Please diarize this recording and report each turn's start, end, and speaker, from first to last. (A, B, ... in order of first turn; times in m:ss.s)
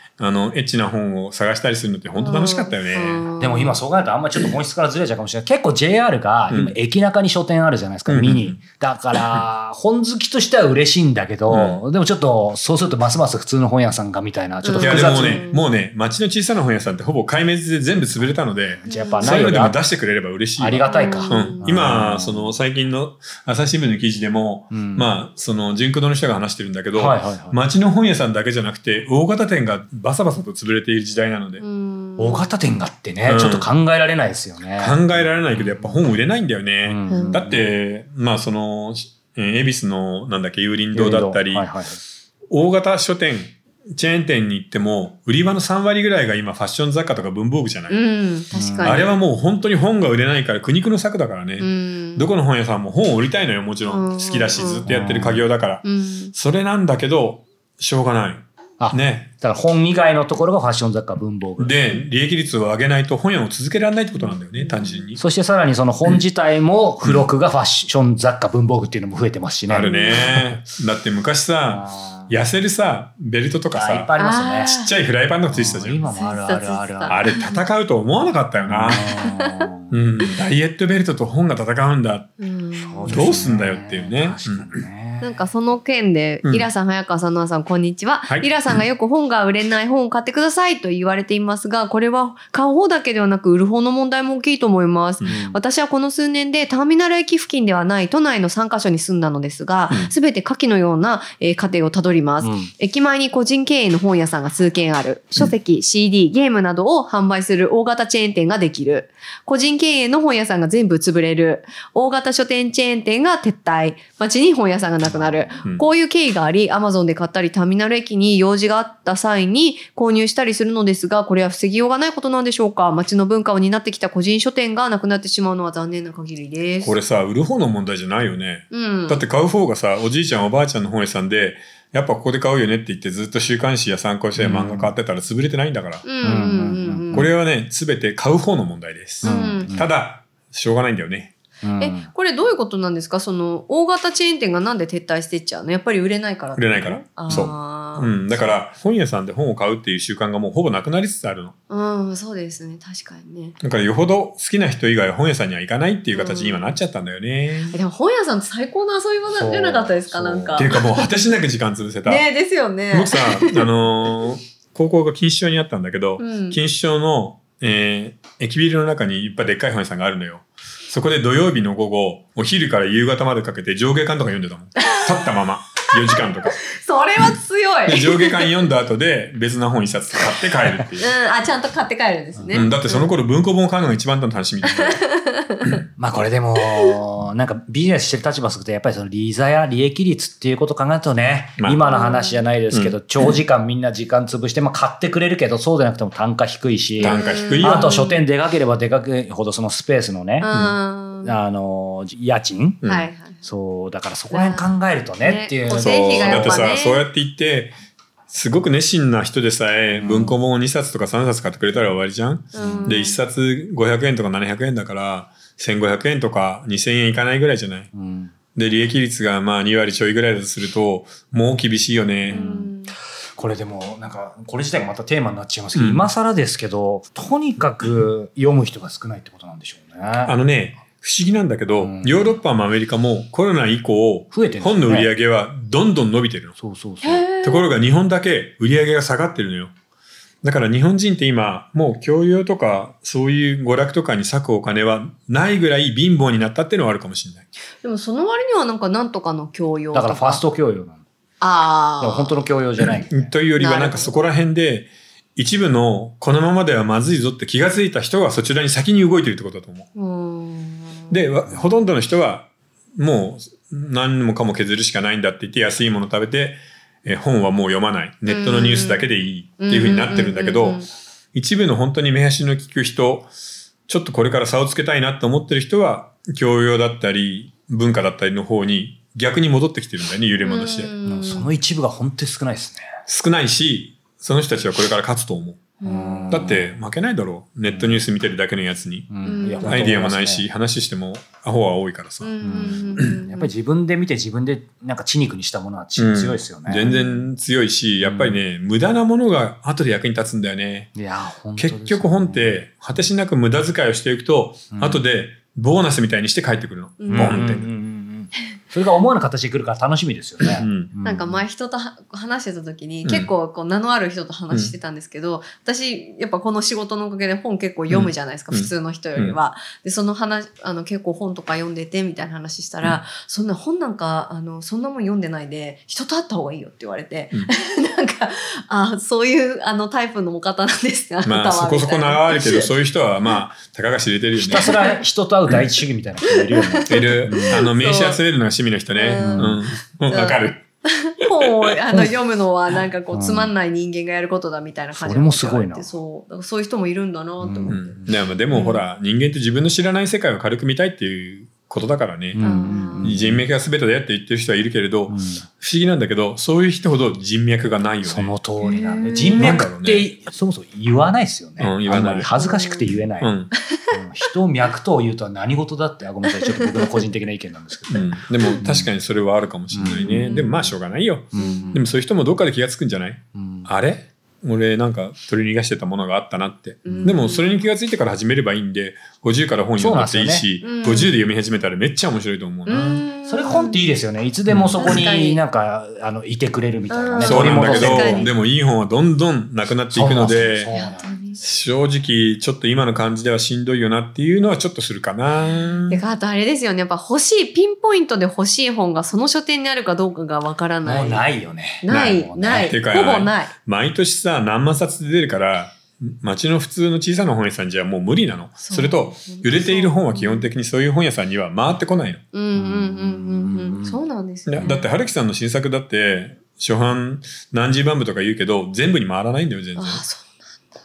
0:00.2-0:03.2 A
0:02.2-0:03.8 B
0:03.4-0:15.4 C
0:06.5-0:06.8 A
0:08.1-0:08.6 A
0:11.5-0:11.8 A
0:14.6-0:15.6 B
0:14.8-0:31.6 A
0:18.8-0:19.8 C
0:18.8-0:19.3 B
0:20.6-0:22.6 C
0:20.8-0:21.7 B
0:24.7-0:25.1 C
0:26.9-0:27.6 C
0:31.6-0:32.5 B
0:32.2-0:36.1 C
0:33.2-0:33.7 A
0:34.8-0:41.6 A
0:36.8-0:37.7 C
0:37.1-0:37.4 B
0:40.9-0:42.0 C
0:42.5-0:48.0 A
0:47.9-0:49.1 B
0:48.5-0:49.1 C
0:48.8-0:59.3 A
0:51.6-0:52.3 B
0:53.9-0:54.8 B
0:54.9-0:55.5 C
0:55.8-0:56.3 B
0:58.8-1:01.7 C
1:01.6-1:05.2 A
1:04.6-1:05.0 B
1:05.2-1:10.6 C
1:09.7-1:14.1 A
1:09.8-1:10.3 B
1:11.7-1:12.3 C
1:13.7-1:14.8 C
1:14.2-1:14.9 B
1:14.7-1:16.0 A
1:15.5-1:17.3 C
1:16.1-1:17.5 B
1:17.1-1:19.1 A
1:18.7-1:19.9 C
1:19.0-1:19.6 B
1:19.9-1:22.3 A
1:22.4-1:23.4 B
1:22.7-1:25.4 C
1:23.1-1:24.8 A
1:25.2-2:07.0 B
1:35.2-1:35.6 C
1:42.4-1:42.7 C
1:55.0-1:55.6 C
2:06.8-2:16.0 A
2:08.7-2:09.2 B
2:14.4-2:14.9 C
2:16.0-2:17.3 B
2:16.2-2:17.3 C
2:17.1-2:21.3 A
2:19.2-2:19.7 B
2:19.2-2:19.9 C
2:21.6-2:22.1 C
2:21.8-2:28.5 B
2:26.6-2:31.5 A
2:31.7-2:33.6 B
2:33.6-2:37.8 A
2:36.1-2:36.8 B
2:37.7-2:41.1 B
2:39.3-2:40.7 C
2:40.6-2:42.2 A
2:42.0-2:43.6 B
2:42.9-2:56.6 A
2:46.2-2:46.6 B
2:54.8-2:55.3 B
2:56.0-2:58.5 B
2:57.8-3:01.1 A
3:01.0-3:03.1 B
3:02.4-3:02.7 C
3:02.5-3:05.0 A
3:04.6-3:05.8 B
3:06.0-3:20.5 C
3:11.6-3:11.8 A
3:11.8-3:12.4 B
3:12.7-3:13.0 A
3:17.0-3:18.2 B
3:17.0-3:17.9 A
3:20.4-3:21.4 B
3:21.2-3:22.8 C
3:22.8-3:23.1 A
3:22.8-3:23.4 B
3:23.4-3:26.6 C
3:24.3-3:24.7 B
3:25.2-3:27.0 B
3:25.7-3:27.8 A
3:28.3-3:37.9 A
3:30.0-3:30.4 C
3:32.5-3:33.2 B
3:32.6-3:33.0 C
3:37.9-3:38.3 C
3:38.5-3:42.4 A
3:42.3-3:42.7 C
3:42.3-3:42.9 B
3:43.3-3:50.3 C
3:45.7-3:46.1 A
3:50.2-3:56.5 A
3:51.8-3:52.4 C
3:54.3-3:55.1 C
3:56.6-3:57.2 C
3:57.0-3:57.7 B
3:57.4-3:59.7 A
4:00.4-4:07.5 A
4:07.8-4:10.4 B
4:09.9-4:11.0 C
4:11.4-4:12.4 B
4:12.0-4:13.3 C
4:13.1-4:19.9 A
4:13.6-4:14.1 B
4:20.0-4:21.2 B
4:21.1-4:30.8 A
4:21.5-4:21.8 C
4:28.2-4:29.0 B
4:29.6-4:30.9 B
4:31.3-4:33.3 A
4:33.9-4:40.9 A
4:40.4-4:41.5 B
4:41.0-4:42.9 C
4:43.1-4:45.7 A
4:45.8-4:46.5 B
4:45.8-4:46.8 C
4:46.3-4:49.1 A
4:47.7-4:48.0 C
4:49.1-4:50.5 C
4:49.2-4:49.8 B
4:49.6-4:53.1 A
4:52.2-4:53.5 B
4:52.4-4:56.9 C
4:56.0-5:00.9 A
4:56.8-4:57.2 B
4:58.0-4:58.4 C
5:01.0-5:03.1 C
5:01.6-5:07.7 A
5:04.7-5:05.0 C
5:07.0-5:07.5 B
5:07.1-5:11.4 C
5:10.5-5:10.9 A
5:11.0-5:32.7 B
5:17.9-5:19.4 A
5:31.2-5:34.8 A
5:34.4-5:37.6 C
5:34.5-5:35.0 B
5:36.3-5:38.2 B
5:36.9-5:40.6 A
5:39.0-5:48.0 B
5:39.2-5:39.6 C
5:41.2-5:41.7 A
5:43.1-5:43.5 C
5:44.9-5:45.9 C
5:47.4-5:48.1 C
5:47.7-5:52.5 A
5:48.5-5:48.8 B
5:52.3-5:53.5 C
5:52.4-5:53.2 B
5:53.0-5:58.3 A
5:55.1-5:55.4 C
5:58.0-6:03.3 C
5:58.6-5:59.5 B
5:59.4-6:00.1 A
6:01.6-6:02.3 A
6:02.4-6:02.8 B
6:03.2-6:03.5 A
6:03.6-6:03.9 B
6:03.9-6:08.9 C
6:06.2-6:07.0 B
6:07.9-6:23.0 A
6:09.7-6:10.7 C
6:09.8-6:10.7 B
6:11.3-6:11.8 C
6:11.4-6:11.8 B
6:13.3-6:13.7 C
6:16.8-6:17.5 B
6:16.8-6:17.2 C
6:19.8-6:20.5 C
6:20.6-6:21.1 B
6:22.6-6:23.8 B
6:22.7-6:28.3 C
6:24.5-6:25.0 A
6:24.8-6:25.4 B
6:26.9-6:28.3 B
6:27.2-6:30.7 A
6:29.9-6:31.2 C
6:30.7-6:31.4 B
6:31.4-6:36.0 A
6:35.9-6:41.2 B
6:40.8-6:42.7 C
6:41.8-6:43.5 B
6:41.9-6:52.2 A
6:48.6-6:50.5 B
6:52.3-6:54.9 B
6:52.5-6:54.0 C
6:54.5-7:00.0 A
6:59.8-7:00.4 B